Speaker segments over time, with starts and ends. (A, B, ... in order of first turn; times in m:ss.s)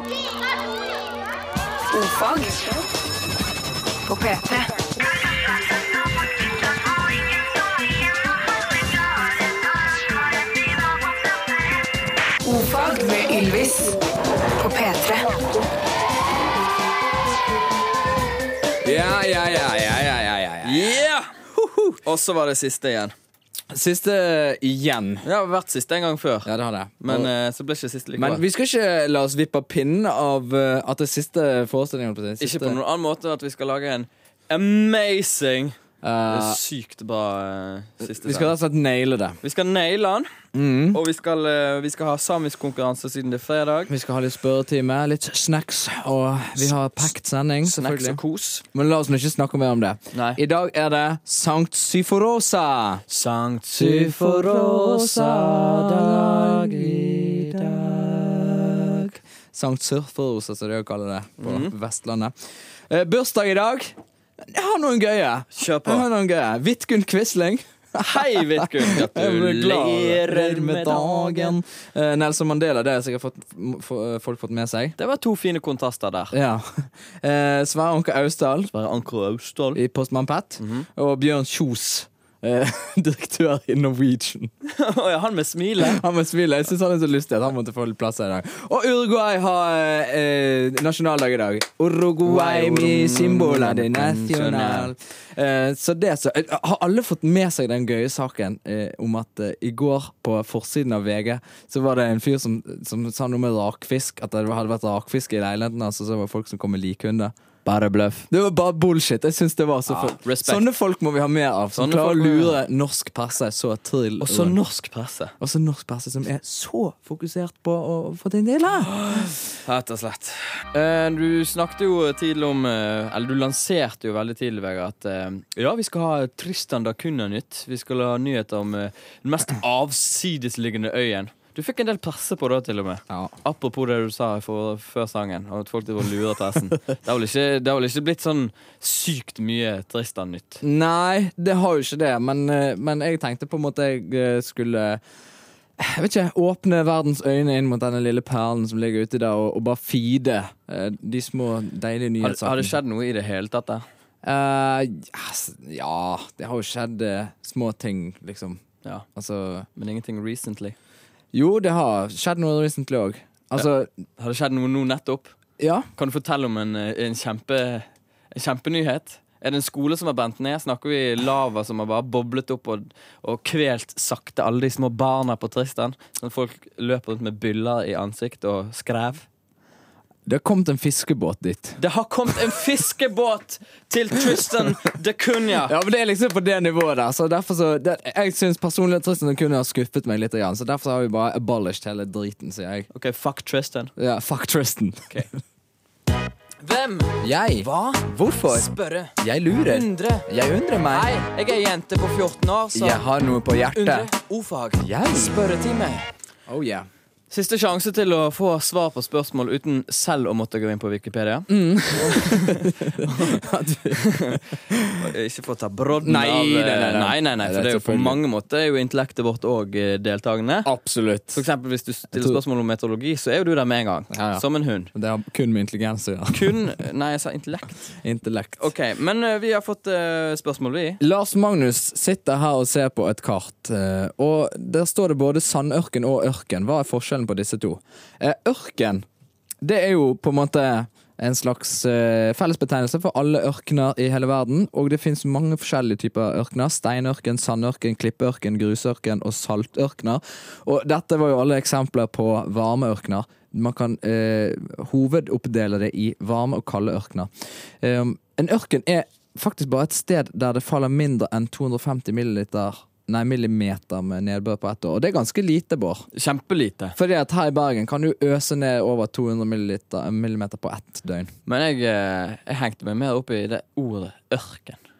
0:01.9-0:02.8 A
0:04.1-0:04.7 A
0:12.4-0:14.0 A
0:14.6-0:15.3 A
0:18.8-0:22.0 B
0:20.6-0:21.4 C
0:22.0-0:23.1 C
0:23.7-0:25.2 B
0:25.2-0:26.5 C
0:26.4-0:27.3 B
0:27.0-0:28.4 C
0:28.2-0:32.8 B
0:32.4-0:35.8 C
0:36.0-0:36.6 B
0:36.3-0:38.5 C
0:38.0-0:39.4 B
0:39.4-0:40.3 C
0:40.5-0:41.0 B
0:40.9-0:43.9 C
0:43.9-0:48.2 B
0:47.6-0:48.6 C
0:48.7-0:53.0 B
0:50.1-0:50.4 C
0:53.1-0:59.0 C
0:53.8-1:02.3 B
1:01.4-1:01.7 C
1:02.9-1:15.0 B
1:05.5-1:06.0 C
1:08.0-1:11.6 C
1:15.0-1:16.4 C
1:16.3-1:18.7 B
1:18.7-1:19.8 C
1:19.7-1:24.5 B
1:20.6-1:20.9 C
1:24.7-1:26.0 C
1:25.8-1:47.3 B
1:32.2-1:34.9 C
1:47.6-1:48.3 C
1:48.3-1:54.6 B
1:49.9-1:50.7 C
1:51.8-1:52.6 C
1:54.2-1:55.3 C
1:55.4-1:59.3 B
1:59.6-2:20.6 C
2:20.6-2:25.0 B
2:25.8-2:32.8 B
2:32.2-2:33.8 C
2:34.2-2:38.6 B
2:39.2-2:39.7 B
2:39.8-2:40.8 C
2:41.3-2:43.9 B
2:44.2-2:45.4 C
2:45.6-2:45.9 B
2:46.0-2:59.2 C
3:00.2-3:01.8 B
3:01.8-3:05.8 C
3:04.2-3:04.6 B
3:05.7-3:12.9 B
3:12.9-3:13.9 C
3:14.0-3:15.2 B
3:16.6-3:19.1 C
3:17.2-3:21.1 B
3:19.6-3:20.3 C
3:20.9-3:23.0 C
3:22.7-3:24.1 B
3:23.7-3:26.1 C
3:24.8-3:25.4 B
3:26.5-3:26.9 B
3:27.3-3:33.4 C
3:31.5-3:35.0 B
3:34.0-3:34.4 C
3:35.0-3:40.7 C
3:36.0-3:38.2 B
3:40.6-3:41.4 B
3:41.3-3:44.9 C
3:42.1-3:42.4 B
3:44.1-3:46.6 B
3:46.3-3:47.9 C
3:48.0-3:48.7 B
3:48.6-3:51.0 C
3:51.0-3:59.0 B
3:59.6-4:17.3 B
4:17.8-4:26.1 B
4:26.1-4:27.0 C
4:27.0-4:31.3 B
4:31.5-4:34.8 C